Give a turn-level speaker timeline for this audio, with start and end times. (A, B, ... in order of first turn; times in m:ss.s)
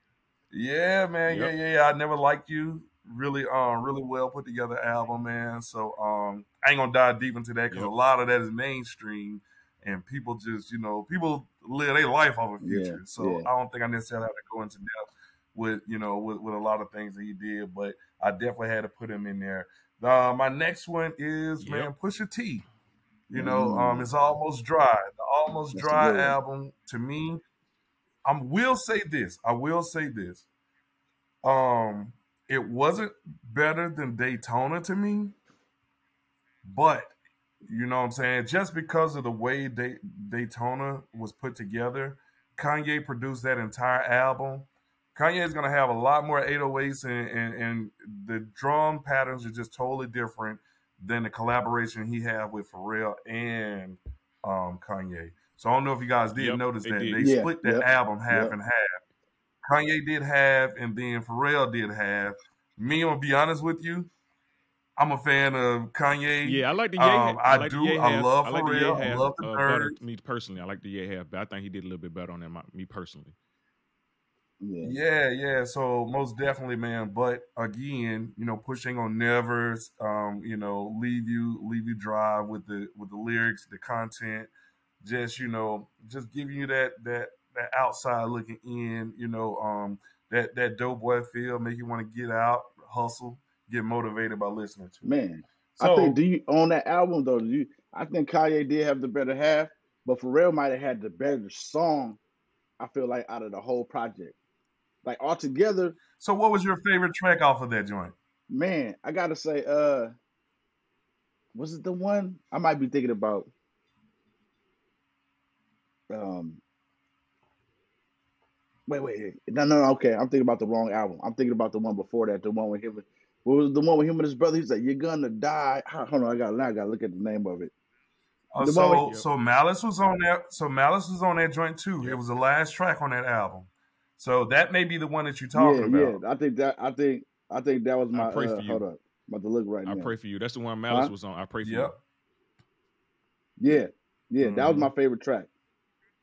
0:00.5-0:22.6 A
0:01.2-0:01.5 B
0:12.6-0:13.5 C
0:21.6-0:21.9 B
0:23.3-0:27.4 A
0:23.3-0:24.1 C
0:25.7-0:26.4 C
0:28.2-0:30.4 A
0:31.4-0:35.4 A
0:36.6-0:59.0 A
0:56.3-0:57.3 B
0:57.2-0:58.6 C
0:59.6-1:04.1 A
1:05.0-1:10.0 A
1:06.4-1:13.3 B
1:14.6-1:15.0 C
1:14.8-1:24.5 A
1:25.0-1:35.1 A
1:35.0-1:42.2 C
1:35.7-1:36.2 A
1:42.8-1:44.4 C
1:45.0-1:46.0 C
1:46.2-1:48.1 A
1:48.5-1:50.1 C
1:51.5-1:53.5 C
1:56.1-1:56.6 C
1:58.9-2:07.7 C
2:08.5-2:16.2 A
2:08.6-2:09.1 C
2:09.0-2:09.3 B
2:15.5-2:20.1 C
2:18.1-2:18.8 B
2:19.8-2:21.9 B
2:21.6-2:22.0 A
2:23.6-2:25.5 C
2:24.4-2:24.9 A